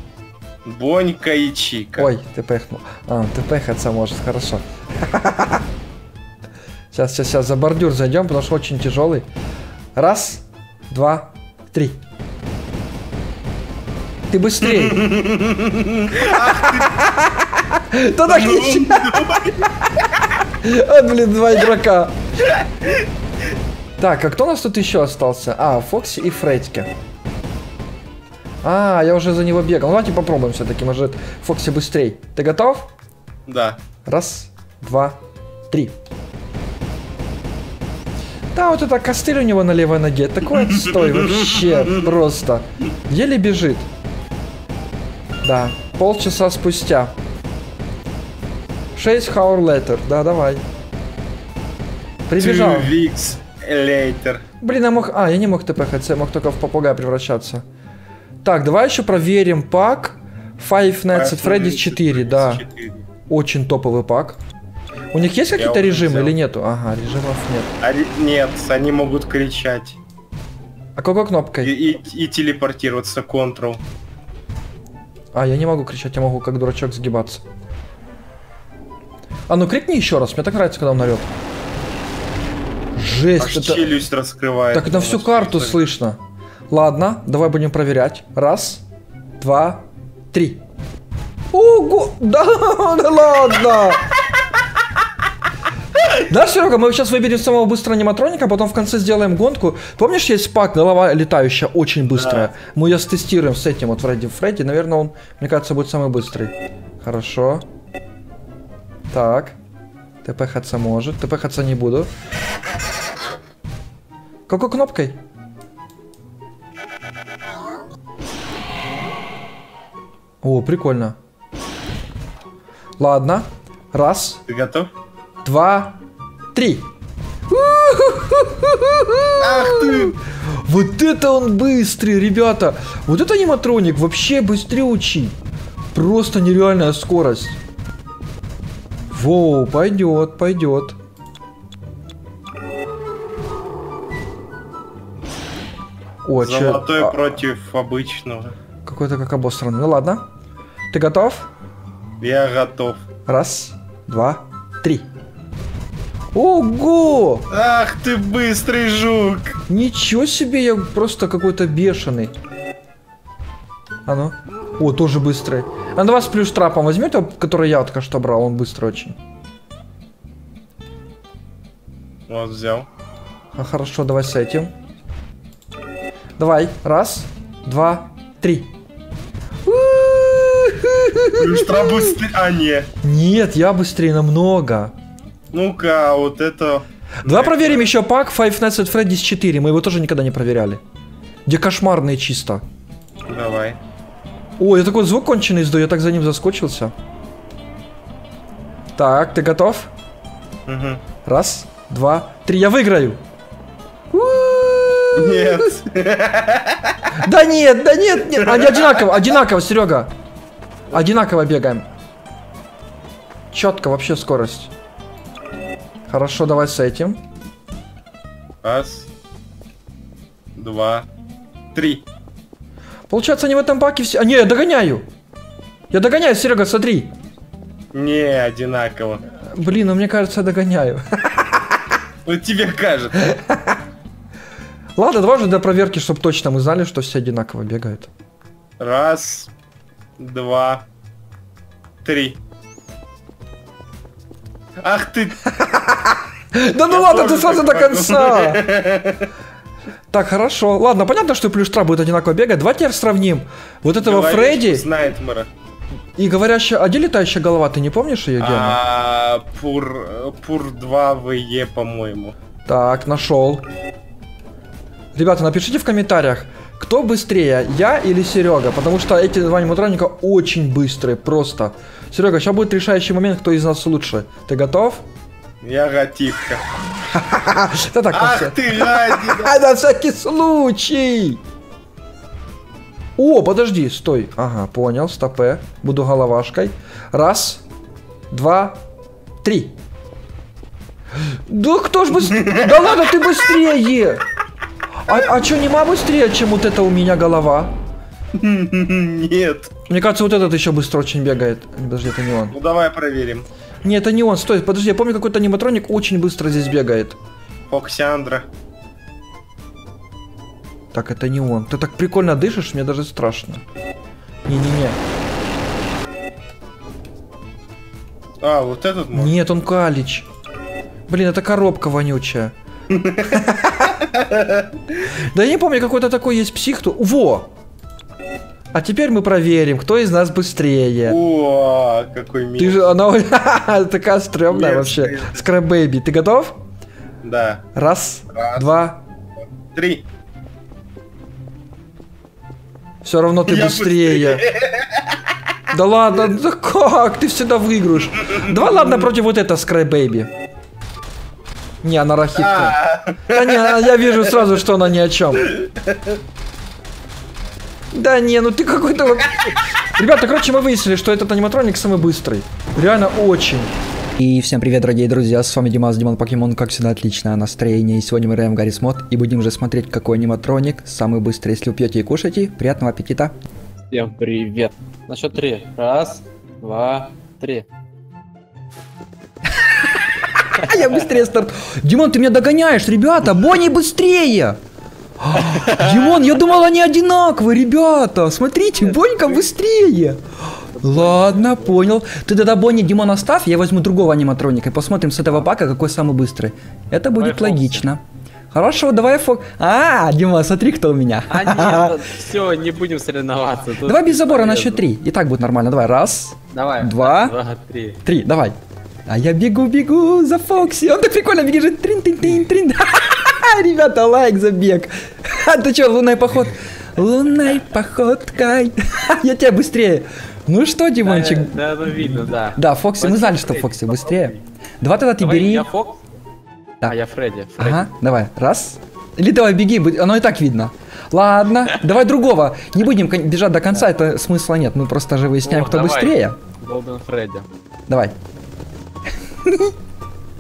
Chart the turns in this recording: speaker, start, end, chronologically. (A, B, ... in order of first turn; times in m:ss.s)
0:00.6-0:02.1 A
0:02.0-0:05.6 B
0:06.9-0:09.3 B
0:10.0-0:12.0 B
0:14.3-0:15.1 B
0:14.8-0:17.0 A
0:16.3-0:19.3 B
0:18.3-0:19.7 A
0:20.6-0:22.2 B
0:24.0-0:26.9 B
0:28.6-0:32.9 B
0:33.5-0:33.8 A
0:34.0-0:35.2 B
0:38.5-0:43.9 B
0:40.7-0:41.9 A
0:45.4-0:47.1 B
0:49.0-0:50.6 B
0:52.3-0:53.0 B
0:52.4-0:54.4 A
0:54.6-0:57.6 B
0:58.4-1:02.6 B
1:01.1-1:03.1 A
1:03.3-1:04.4 B
1:05.1-1:07.7 B
1:05.6-1:06.4 A
1:07.8-1:10.0 A
1:11.0-1:11.7 B
1:11.6-1:13.8 A
1:15.3-1:17.4 B
1:19.5-1:21.3 B
1:23.0-1:23.9 B
1:23.4-1:25.8 A
1:24.7-1:26.2 B
1:26.7-1:28.8 B
1:29.4-1:30.6 B
1:31.5-1:34.1 B
1:36.2-1:47.6 B
1:42.2-1:42.5 A
1:49.1-1:49.6 B
1:50.2-1:52.1 B
1:54.5-1:55.2 B
2:00.4-2:01.2 B
2:03.0-2:04.4 B
2:04.5-2:04.9 A
2:05.4-2:06.0 B
2:06.6-2:06.9 B
2:07.5-2:15.4 B
2:09.4-2:10.2 A
2:15.9-2:17.6 B
2:19.1-2:21.0 B
2:26.2-2:27.4 B
2:26.4-2:28.6 A
2:28.9-2:30.2 B
2:30.9-2:31.5 B
2:32.2-2:33.0 A
2:33.3-2:35.1 B
2:36.3-2:37.5 B
2:37.5-2:39.6 A
2:39.7-2:42.3 B
2:44.1-2:49.2 B
2:52.3-2:52.9 A
2:53.5-2:54.7 B
2:56.4-2:58.7 B
2:59.6-3:02.2 B
3:01.4-3:02.9 A
3:03.0-3:04.9 B
3:05.5-3:07.9 A
3:07.2-3:10.8 B
3:11.5-3:12.6 B
3:13.3-3:13.8 A
3:14.6-3:16.9 B
3:19.0-3:19.9 B
3:20.7-3:21.0 A
3:21.2-3:23.2 B
3:24.1-3:25.7 B
3:25.2-3:27.1 A
3:27.2-3:30.1 B
3:28.4-3:29.0 A
3:30.9-3:31.9 B
3:33.5-3:34.7 B
3:36.1-3:37.2 B
3:38.6-3:39.1 A
3:40.6-3:41.1 A
3:41.7-3:42.0 A
3:43.1-3:45.0 B
3:45.9-3:47.1 B
3:47.9-3:49.2 A
3:49.5-3:51.6 B
3:52.2-3:53.3 A
3:53.3-3:53.8 B
3:55.0-3:58.1 B
3:58.8-3:59.5 A
4:00.2-4:00.8 A
4:02.0-4:02.4 A
4:04.8-4:05.6 A
4:05.7-4:08.6 B
4:06.9-4:09.3 A
4:10.1-4:14.8 B
4:14.0-4:15.5 A
4:16.2-4:18.8 B
4:18.4-4:22.4 A
4:22.7-4:23.7 B
4:25.2-4:35.0 B
4:35.6-4:36.6 A
4:37.1-4:41.4 B
4:38.1-4:39.6 A
4:43.2-4:47.6 B
4:48.3-4:48.8 B
4:49.4-4:49.8 B
4:51.5-4:54.2 B
4:52.4-4:52.8 A
4:55.0-4:57.8 B
4:58.3-4:59.7 A
4:59.9-5:02.6 B
5:02.5-5:03.5 A
5:03.8-5:07.2 B
5:07.7-5:08.5 A
5:10.9-5:13.6 B
5:14.5-5:15.0 B
5:18.4-5:19.4 A
5:19.1-5:20.3 B
5:21.1-5:22.5 B
5:22.9-5:23.4 A
5:23.3-5:23.8 B
5:24.1-5:24.7 A
5:25.1-5:27.5 B
5:28.7-5:31.2 B
5:31.1-5:32.9 A
5:32.6-5:36.6 B
5:34.5-5:35.4 A
5:37.2-5:37.6 A
5:37.8-5:39.0 B
5:38.3-5:38.6 A
5:39.7-5:40.0 A
5:43.0-5:44.4 B
5:43.5-5:45.1 A
5:45.7-5:50.3 B
5:48.1-5:49.1 A
5:51.8-5:55.6 B
5:52.4-5:54.2 A
5:55.5-5:56.1 A
5:57.9-6:13.3 B
6:13.9-6:17.7 C
6:20.6-6:24.6 B
6:25.2-6:30.2 B
6:25.4-6:26.2 C
6:28.8-6:29.4 C
6:30.8-6:31.8 C
6:30.8-6:38.0 B
6:37.2-6:37.8 C
6:38.5-6:42.0 B
6:41.3-6:44.9 C
6:43.8-6:47.4 B
6:46.5-6:48.0 C
6:48.0-6:48.6 B
6:49.1-7:05.7 B
7:01.0-7:04.4 C
7:05.2-7:06.0 C
7:06.8-7:07.9 C
7:07.6-7:16.4 B
7:15.4-7:17.5 C
7:17.9-7:18.2 B
7:19.4-7:19.7 B